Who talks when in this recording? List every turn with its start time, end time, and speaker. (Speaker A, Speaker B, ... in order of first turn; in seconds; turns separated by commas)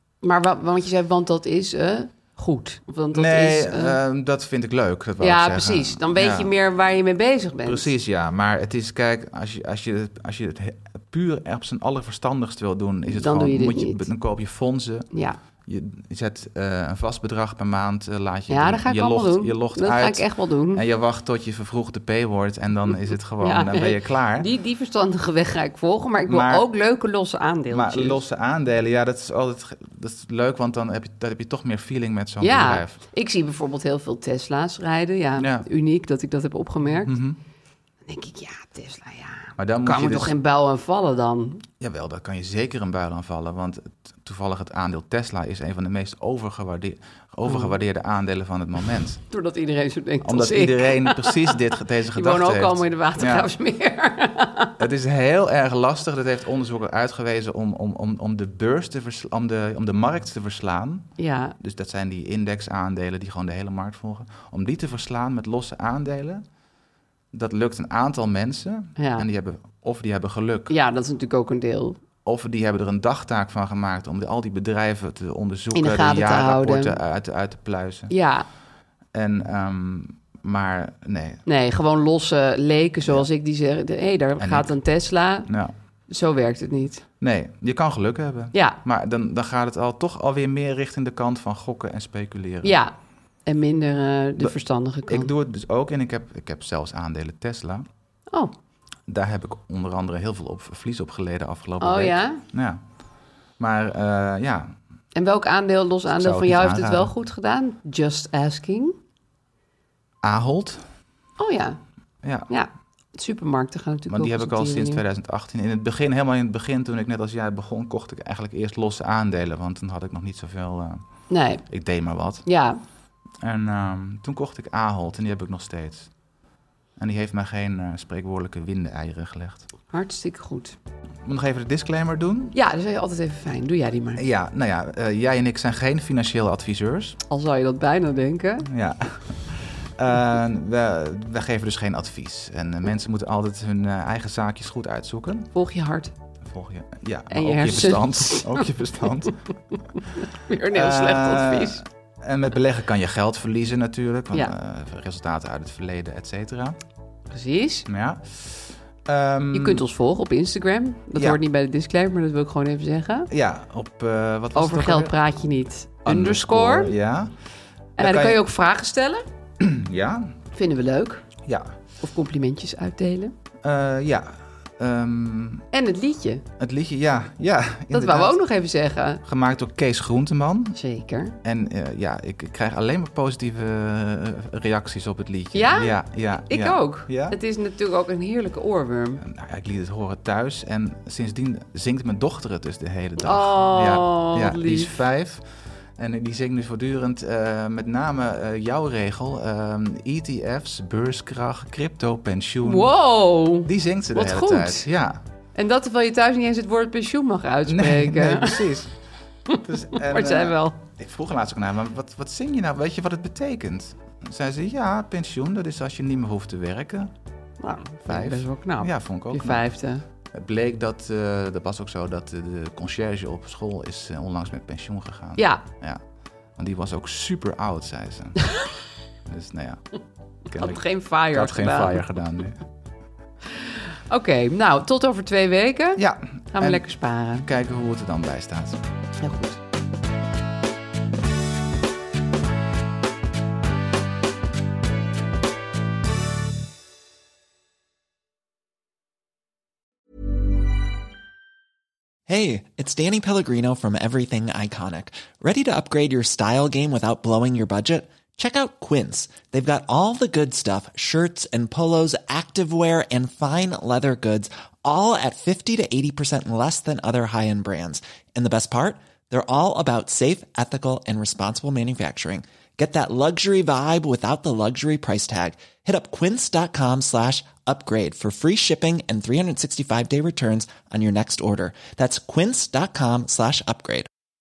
Speaker A: 0.2-4.0, Speaker B: 3.1-6.5, Speaker A: 5.2-7.9, Speaker B: 7.6-15.1, Speaker A: 13.1-14.0, Speaker A: 15.1-15.4, Speaker B: 15.7-24.5, Speaker A: 18.5-20.8, Speaker A: 23.4-28.2, Speaker B: 26.3-26.6, Speaker B: 27.7-33.0, Speaker A: 32.4-37.1, Speaker B: 35.4-35.7, Speaker B: 37.0-37.4, Speaker A: 38.0-41.6, Speaker B: 39.6-40.3, Speaker B: 41.8-49.2, Speaker A: 47.5-47.7, Speaker A: 49.3-54.8, Speaker B: 50.2-53.5, Speaker B: 54.8-66.4, Speaker A: 61.2-61.5, Speaker B: 67.3-70.7, Speaker A: 69.0-69.3, Speaker A: 70.7-72.0, Speaker B: 72.2-78.1, Speaker A: 75.7-77.0, Speaker A: 78.1-78.5, Speaker B: 79.1-81.4, Speaker A: 81.5-85.5, Speaker B: 84.4-84.7, Speaker B: 85.5-85.7, Speaker A: 86.1-87.0, Speaker B: 87.2-92.8, Speaker A: 88.5-88.8, Speaker A: 92.6-92.9, Speaker A: 93.5-95.3, Speaker B: 95.1-97.8, Speaker B: 99.1-102.8, Speaker A: 101.8-102.4, Speaker B: 103.6-104.8, Speaker A: 105.1-108.9, Speaker B: 106.1-107.1, Speaker B: 110.2-110.8, Speaker A: 111.4-111.8, Speaker B: 112.2-112.5, Speaker A: 112.5-115.0, Speaker B: 114.1-122.4, Speaker A: 121.3-121.7, Speaker A: 122.4-122.8, Speaker B: 123.4-126.1, Speaker B: 127.0-129.7, Speaker A: 129.9-130.8, Speaker B: 131.2-132.5, Speaker A: 132.5-134.2, Speaker B: 134.2-137.2, Speaker A: 137.3-138.7, Speaker B: 138.7-145.5, Speaker A: 145.5-146.1, Speaker B: 146.4-149.4, Speaker A: 147.3-148.7, Speaker A: 149.3-151.8, Speaker B: 150.7-156.8, Speaker A: 157.3-157.9, Speaker B: 157.9-159.8, Speaker A: 159.5-163.3, Speaker B: 161.1-161.4, Speaker B: 163.3-165.2, Speaker A: 164.5-166.9, Speaker B: 166.0-167.3, Speaker A: 168.0-169.2, Speaker B: 168.0-168.4, Speaker B: 169.6-170.3, Speaker A: 170.5-171.2, Speaker B: 171.4-171.7, Speaker A: 172.0-173.3, Speaker B: 173.6-175.7, Speaker A: 175.7-176.4, Speaker B: 176.6-178.4, Speaker A: 177.9-179.2, Speaker B: 179.2-180.8, Speaker A: 180.7-181.3, Speaker B: 181.4-187.4, Speaker A: 185.5-189.2, Speaker B: 189.2-195.4, Speaker A: 193.2-195.0, Speaker B: 196.0-202.9, Speaker A: 202.6-204.9, Speaker B: 203.6-205.2, Speaker A: 205.5-208.7, Speaker B: 207.7-208.9, Speaker A: 209.5-210.8, Speaker B: 209.6-217.1, Speaker A: 217.6-220.0, Speaker B: 218.0-219.6, Speaker B: 220.3-226.0, Speaker A: 225.4-225.6, Speaker B: 226.6-228.5, Speaker B: 229.2-229.8, Speaker B: 230.5-232.6, Speaker A: 230.5-232.0, Speaker A: 234.1-237.5, Speaker B: 236.0-238.8, Speaker A: 239.2-239.6, Speaker C: 252.3-284.1